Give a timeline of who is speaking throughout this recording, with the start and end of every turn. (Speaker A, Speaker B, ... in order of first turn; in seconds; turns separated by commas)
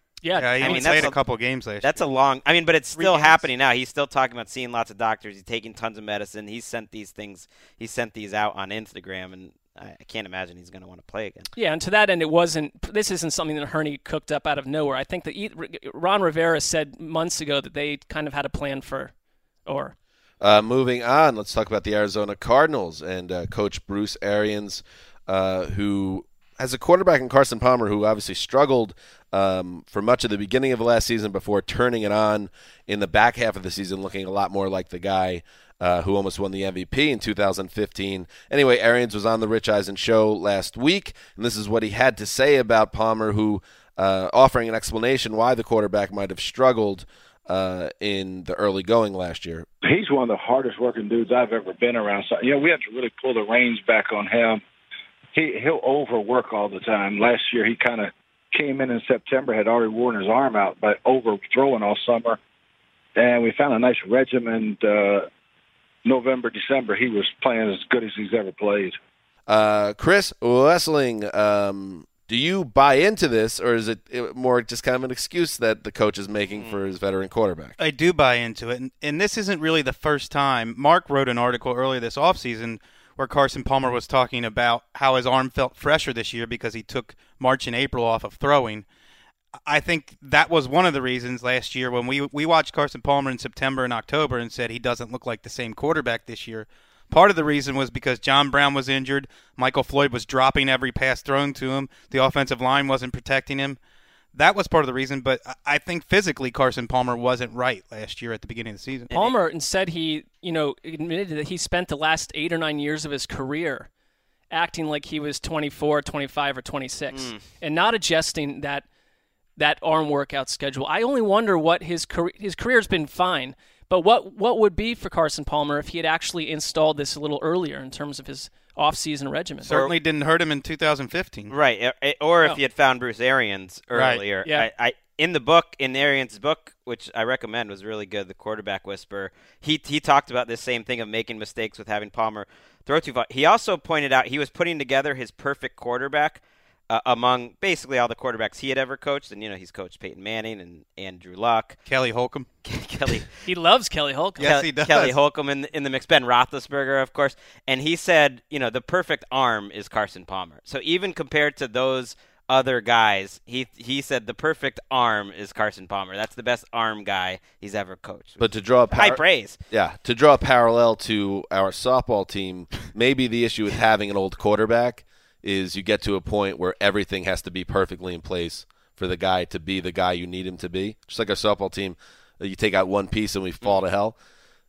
Speaker A: 0.2-1.1, Speaker B: 0.4-2.0, Speaker C: 0.6-1.2, Speaker C: 1.8-11.5, Speaker A: 3.0-3.4, Speaker A: 11.6-19.1, Speaker A: 19.7-19.9, Speaker D: 20.4-49.7, Speaker E: 49.8-54.6, Speaker E: 55.3-62.4, Speaker E: 63.2-65.3, Speaker E: 66.0-69.0, Speaker D: 69.5-77.8, Speaker B: 77.8-88.9, Speaker B: 89.7-103.8, Speaker B: 104.3-109.1, Speaker A: 109.1-113.9, Speaker A: 114.5-118.8, Speaker C: 117.1-117.4, Speaker A: 119.6-129.7, Speaker B: 129.7-131.5, Speaker C: 131.5-151.8, Speaker B: 133.9-134.2, Speaker B: 151.9-152.5, Speaker C: 152.7-153.3, Speaker A: 153.4-154.5, Speaker B: 154.4-155.1, Speaker C: 154.4-169.6, Speaker D: 168.4-184.2